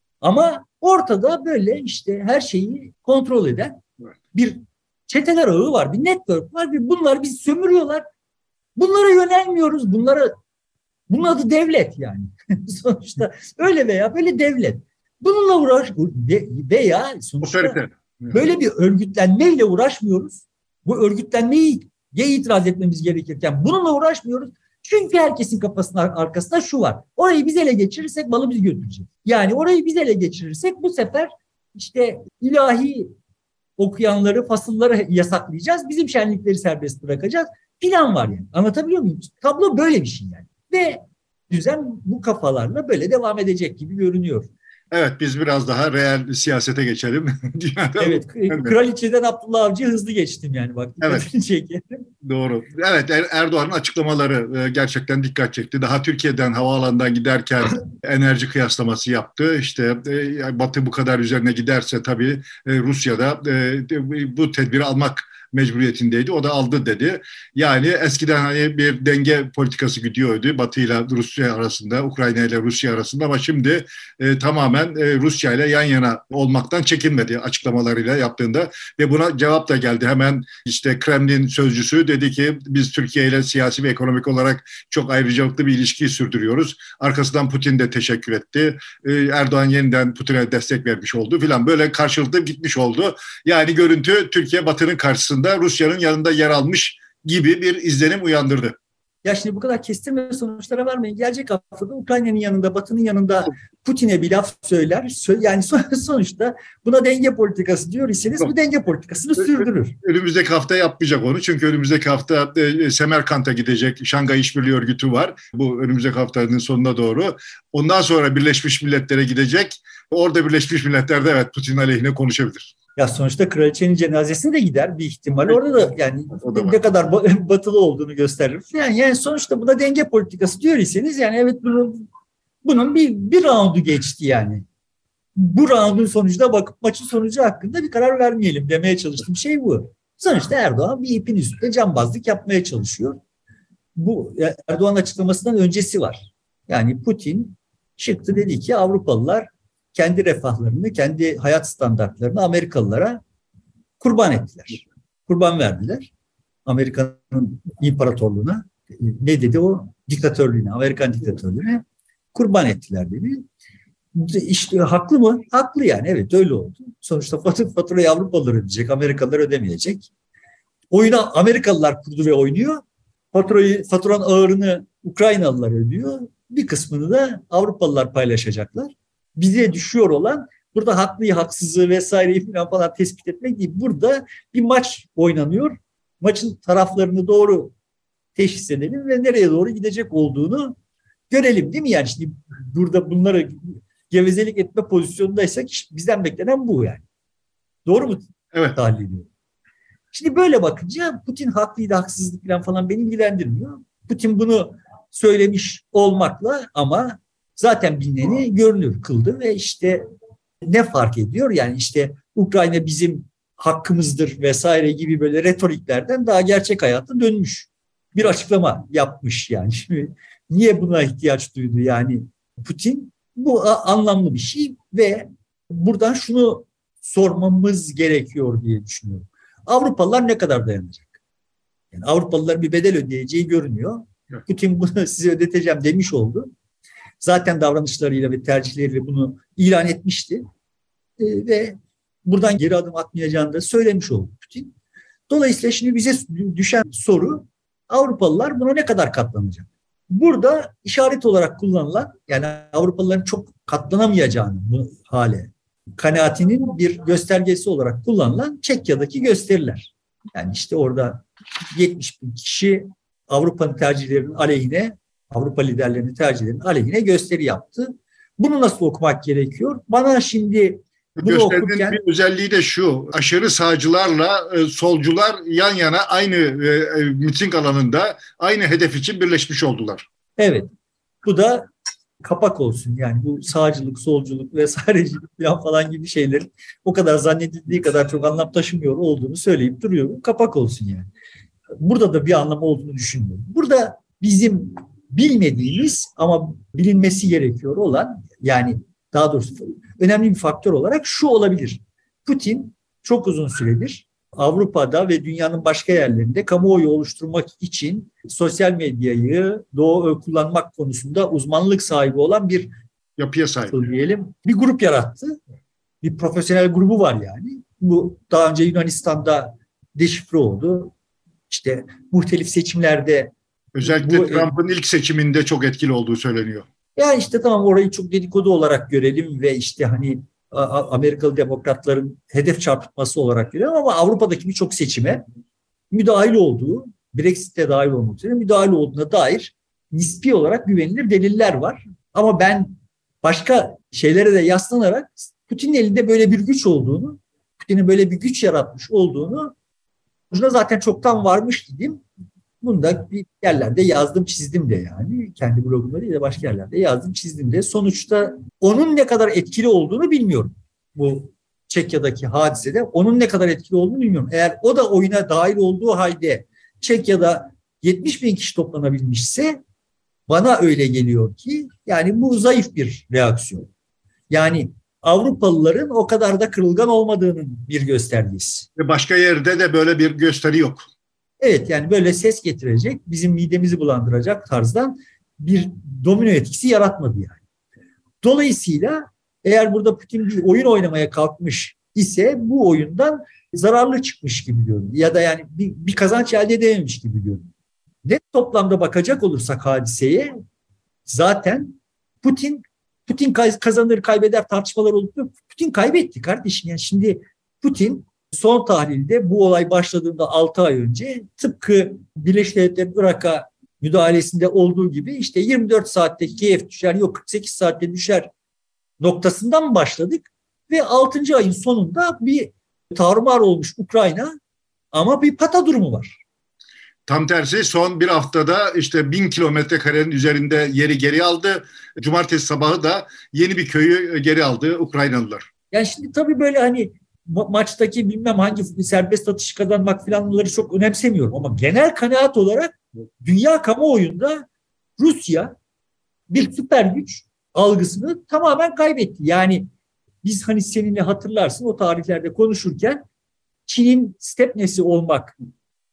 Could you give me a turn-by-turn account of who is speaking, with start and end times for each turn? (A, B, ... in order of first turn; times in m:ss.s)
0:00.2-0:03.8 A
0:04.3-0:08.0 A
0:08.8-0:10.3 A
0:11.1-0:17.8 A
0:17.4-0:18.4 B
0:18.3-0:33.1 A
0:33.8-0:44.5 A
0:44.9-0:48.7 B
0:48.0-0:52.1 A
0:52.2-1:38.8 B
1:39.2-1:50.0 A
1:49.4-2:02.7 B
2:03.0-2:12.1 A
2:06.4-2:06.8 B
2:12.6-2:14.7 A
2:15.4-2:23.2 A
2:24.0-2:33.2 A
2:34.0-2:36.1 A
2:36.7-2:43.4 A
2:44.2-2:50.1 A
2:50.9-3:07.7 A
3:08.4-3:10.8 A
3:11.3-3:17.0 A
3:17.9-3:19.3 A
3:18.5-3:18.8 B
3:20.1-3:30.0 A
3:30.6-3:51.1 A
3:51.9-3:56.5 A
3:57.2-4:00.4 A
4:01.2-4:04.7 A
4:05.3-4:32.0 A
4:31.2-4:40.1 B
4:40.4-4:40.7 A
4:41.2-4:41.7 A
4:42.2-4:51.1 A
4:51.8-5:12.7 A
5:13.2-5:13.8 B
5:13.7-5:15.4 A
5:16.0-5:20.9 A
5:21.5-5:24.5 A
5:23.8-5:26.7 B
5:27.0-5:35.2 A
5:35.9-5:49.6 A
5:50.3-5:52.0 A
5:52.6-6:09.6 A
6:10.3-6:13.7 A
6:14.3-6:18.7 A
6:18.8-6:20.8 B
6:21.4-6:27.4 A
6:28.2-6:37.5 A
6:38.0-6:40.3 A
6:41.1-6:58.3 A
6:59.0-7:04.4 A
7:04.9-7:06.2 A
7:07.1-7:15.5 B
7:15.7-7:24.5 A
7:25.0-7:25.6 A
7:26.3-7:29.7 A
7:30.2-7:33.0 A
7:33.7-7:35.4 A